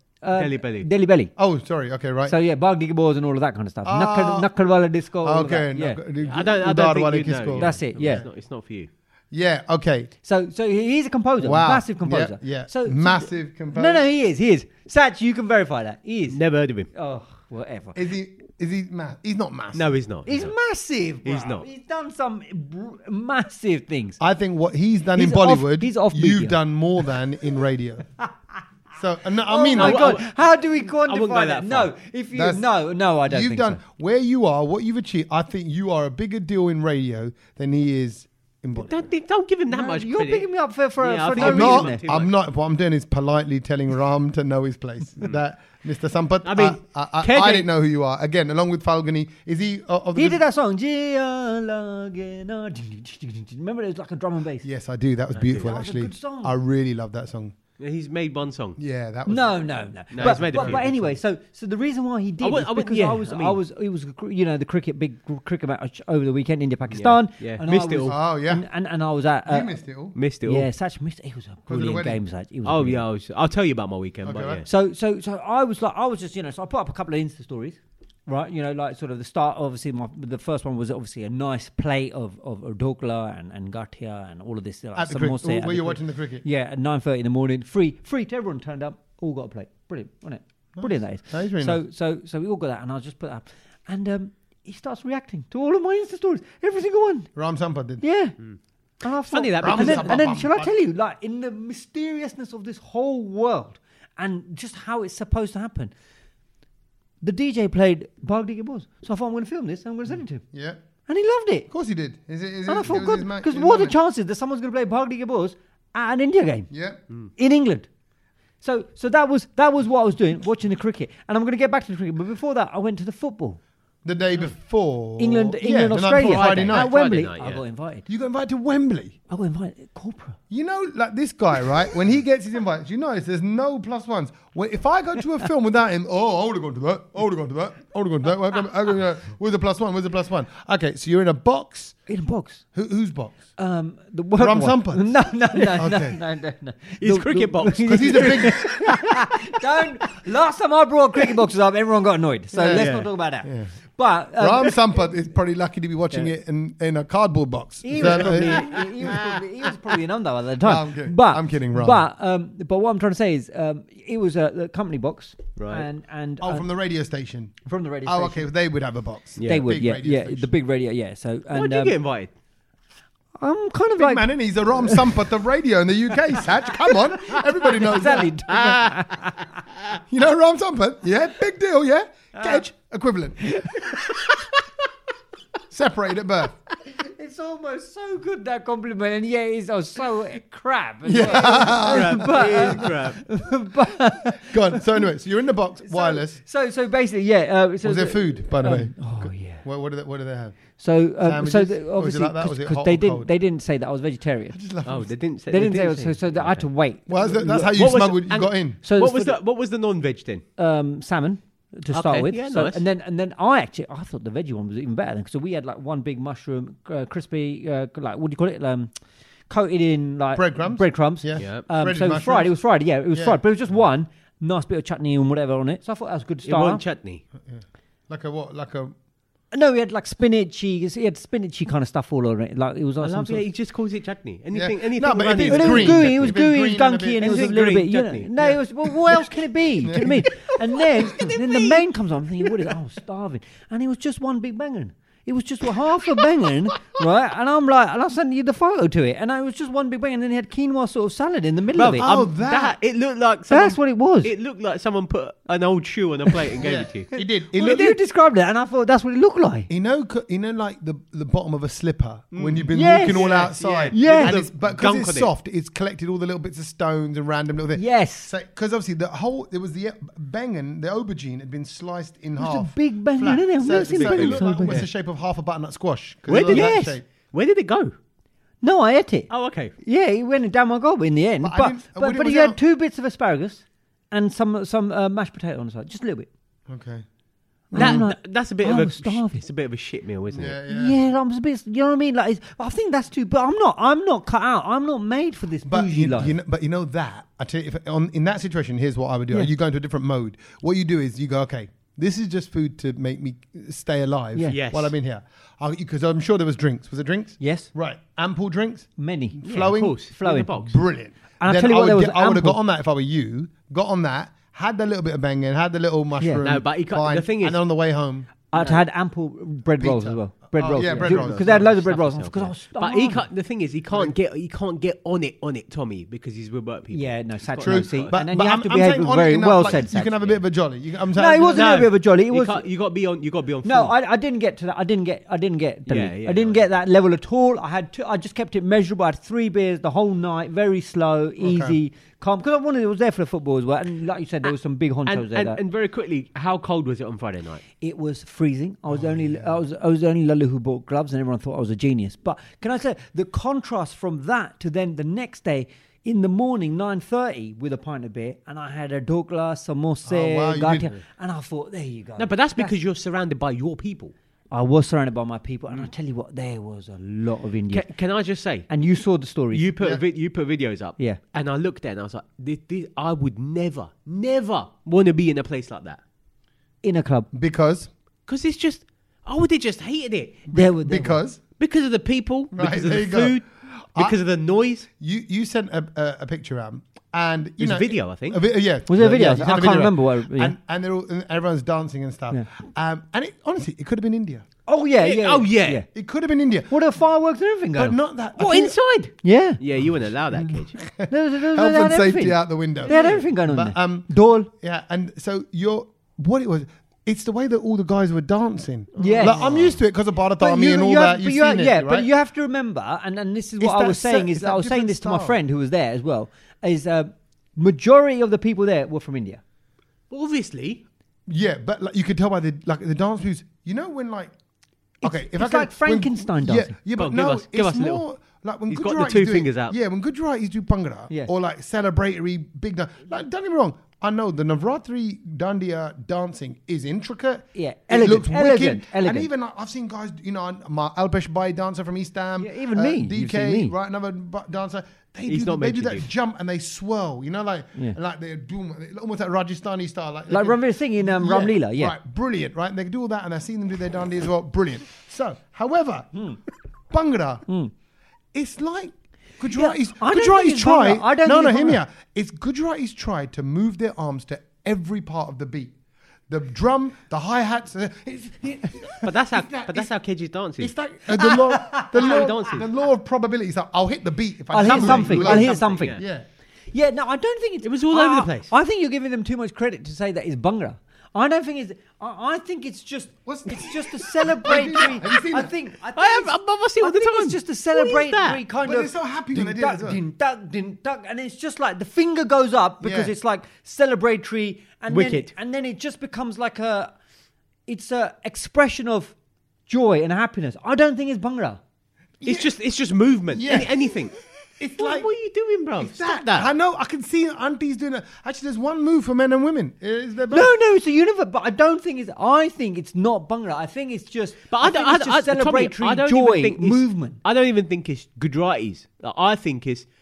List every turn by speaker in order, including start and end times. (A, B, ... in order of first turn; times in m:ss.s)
0:00.2-0:01.3 A
0:00.3-0:00.9 B
0:01.4-0:02.3 C
0:02.2-0:06.0 A
0:03.8-0:04.5 C
0:05.2-0:08.2 C
0:06.2-0:08.9 B
0:07.5-0:08.2 A
0:09.3-0:10.1 C
0:10.2-0:16.4 A
0:11.4-0:14.0 C
0:16.3-0:16.9 B
0:16.9-0:18.0 A
0:17.9-0:20.0 C
0:19.7-0:20.5 B
0:20.2-0:24.2 A
0:21.2-0:21.6 B
0:24.2-0:28.1 C
0:25.2-0:26.6 A
0:29.0-0:30.1 C
0:29.4-0:33.8 A
0:29.8-0:30.2 B
0:31.0-0:31.9 B
0:32.3-0:32.7 C
0:33.2-0:39.1 C
0:38.8-0:40.4 B
0:39.7-0:42.0 A
0:41.0-0:42.3 B
0:41.4-0:50.4 C
0:46.4-0:47.7 B
0:50.1-0:54.6 A
0:54.6-0:57.6 C
0:55.3-0:55.7 B
0:55.6-0:56.5 A
0:57.8-0:58.8 B
0:58.8-0:59.6 C
0:59.3-1:09.7 A
1:00.1-1:01.2 C
1:00.1-1:00.8 B
1:02.4-1:03.6 B
1:06.9-1:08.1 B
1:08.1-1:08.6 C
1:09.5-1:10.2 C
1:10.1-1:10.7 B
1:10.4-1:13.0 A
1:11.7-1:12.2 C
1:12.6-1:14.7 B
1:14.2-1:14.6 C
1:14.6-1:37.3 A
1:25.0-1:26.4 C
1:30.8-1:31.8 C
1:37.3-1:38.0 C
1:38.0-1:38.4 A
1:39.0-1:45.9 A
1:39.3-1:40.1 B
1:39.6-1:40.7 C
1:47.2-1:50.4 A
1:50.5-1:50.8 C
1:51.1-1:51.7 A
1:51.7-1:53.9 C
1:52.7-1:56.7 A
1:56.7-1:57.0 C
1:57.4-1:57.9 A
1:58.6-2:03.6 A
2:04.0-2:06.9 C
2:05.2-2:08.0 A
2:06.2-2:07.6 B
2:08.1-2:09.2 C
2:09.3-2:10.4 A
2:10.5-2:22.0 C
2:22.1-2:22.6 A
2:22.7-2:23.5 C
2:23.6-2:34.8 A
2:24.4-2:25.1 C
2:25.7-2:26.2 C
2:27.0-2:29.2 B
2:27.9-2:28.7 C
2:32.5-2:32.9 C
2:32.7-2:33.1 B
2:33.4-2:33.7 C
2:34.4-2:39.1 C
2:37.8-2:46.7 A
2:37.9-2:39.7 B
2:40.6-2:42.0 C
2:45.6-2:45.9 B
2:46.4-2:50.5 C
2:47.6-2:48.5 A
2:49.4-2:49.7 B
2:49.4-2:52.0 A
2:51.5-2:52.3 B
2:53.4-2:55.2 A
2:54.0-2:58.9 C
2:56.6-2:59.5 A
3:00.1-3:04.0 C
3:03.5-3:04.0 A
3:05.7-3:06.6 C
3:06.8-3:14.8 A
3:11.0-3:13.0 C
3:11.8-3:13.2 B
3:14.4-3:16.4 C
3:15.8-3:19.6 A
3:17.8-3:20.6 C
3:20.8-3:24.6 A
3:21.2-3:23.3 C
3:24.5-3:25.1 C
3:24.8-3:26.7 B
3:25.5-3:27.7 A
3:27.1-3:28.8 C
3:27.6-3:30.4 B
3:28.8-3:29.4 A
3:30.6-3:38.9 A
3:31.9-3:32.8 B
3:39.5-3:46.8 A
3:40.3-3:42.5 C
3:41.4-3:41.6 B
3:43.1-3:43.4 C
3:46.4-3:47.2 B
3:47.4-3:48.9 C
3:49.5-3:53.4 A
3:53.0-3:56.3 B
3:54.5-3:57.5 C
3:55.4-4:12.1 A
3:57.2-3:58.3 B
3:58.4-3:59.3 C
3:59.8-4:00.3 C
4:00.9-4:01.8 B
4:11.8-4:17.1 B
4:12.0-4:12.8 C
4:13.5-4:14.3 A
4:16.6-4:18.0 C
4:17.1-4:19.7 A
4:19.7-4:37.0 C
4:22.3-4:25.3 B
4:22.7-4:23.3 A
4:23.9-4:24.4 A
4:27.8-4:28.3 A
4:32.4-4:34.8 A
4:33.7-4:34.9 B
4:36.3-4:37.9 B
4:36.5-4:37.0 A
4:38.6-4:39.3 A
4:39.3-4:39.7 B
4:39.8-4:46.3 A
4:41.4-4:42.6 C
4:46.7-4:47.0 C
4:47.7-4:48.0 C
4:47.7-4:49.4 A
4:47.7-4:50.6 B
4:50.3-4:51.0 C
4:50.7-4:56.4 A
4:55.7-5:10.0 C
5:04.5-5:04.9 B
5:07.4-5:07.7 A
5:09.0-5:10.6 A
5:09.5-5:10.8 B
5:10.6-5:18.3 C
5:11.4-5:12.6 A
5:16.2-5:16.4 A
5:16.4-5:17.6 B
5:18.5-5:23.2 A
5:18.5-5:18.8 B
5:19.8-5:21.7 C
5:20.7-5:28.1 B
5:26.9-5:30.1 A
5:27.6-5:31.7 C
5:31.2-5:32.7 A
5:31.5-5:33.9 B
5:33.6-5:45.6 A
5:35.9-5:36.6 B
5:41.4-5:41.8 C
5:45.0-5:47.6 B
5:47.8-6:02.7 A
5:48.9-5:49.6 C
6:00.0-6:00.9 C
6:02.2-6:04.1 B
6:04.5-6:07.9 A
6:07.7-6:08.7 B
6:08.7-6:09.7 A
6:09.5-6:16.0 B
6:16.8-6:17.3 A
6:17.3-6:17.9 C
6:18.3-6:20.4 B
6:20.5-6:21.4 C
6:20.5-6:21.2 A
6:21.6-6:23.4 B
6:22.5-6:23.4 C
6:24.0-6:24.9 B
6:25.0-6:34.4 C
6:27.6-6:28.4 B
6:28.9-6:30.6 A
6:34.7-6:35.9 A
6:35.0-6:35.8 B
6:35.9-6:36.8 C
6:36.7-6:38.0 A
6:37.7-6:38.8 C
6:38.4-6:40.8 B
6:39.2-6:39.6 A
6:39.8-6:52.1 C
6:41.1-6:44.5 A
6:42.9-6:43.2 B
6:48.9-6:49.8 B
6:49.0-6:49.4 A
6:50.4-6:59.4 A
6:53.6-6:55.4 C
7:00.1-7:00.8 B
7:01.3-7:04.3 C
7:05.0-7:06.7 A
7:05.0-7:36.1 C
7:07.0-7:08.0 B
7:08.7-7:09.7 B
7:17.5-7:19.3 A
7:22.4-7:23.7 A
7:25.3-7:26.1 B
7:30.3-7:31.9 A
7:36.9-7:37.4 C
7:37.5-7:37.7 A
7:38.3-7:45.7 C
7:39.5-7:41.8 A
7:46.3-7:49.9 C
7:49.0-7:50.7 B
7:50.6-7:56.2 C
7:51.1-7:52.4 A
7:51.9-7:52.6 B
7:54.5-7:56.0 A
7:54.6-7:56.0 B
7:56.7-8:16.9 A
7:57.6-7:58.5 B
8:03.2-8:05.5 C
8:06.0-8:08.4 B
8:08.6-8:10.0 C
8:12.8-8:13.1 C
8:14.9-8:15.3 B
8:17.7-8:19.1 A
8:19.7-8:21.6 A
8:22.2-8:22.5 C
8:22.2-8:24.1 B
8:23.3-8:24.0 C
8:24.6-8:25.1 C
8:24.8-8:26.5 B
8:25.8-8:30.5 C
8:30.3-8:37.2 A
8:34.5-8:39.8 B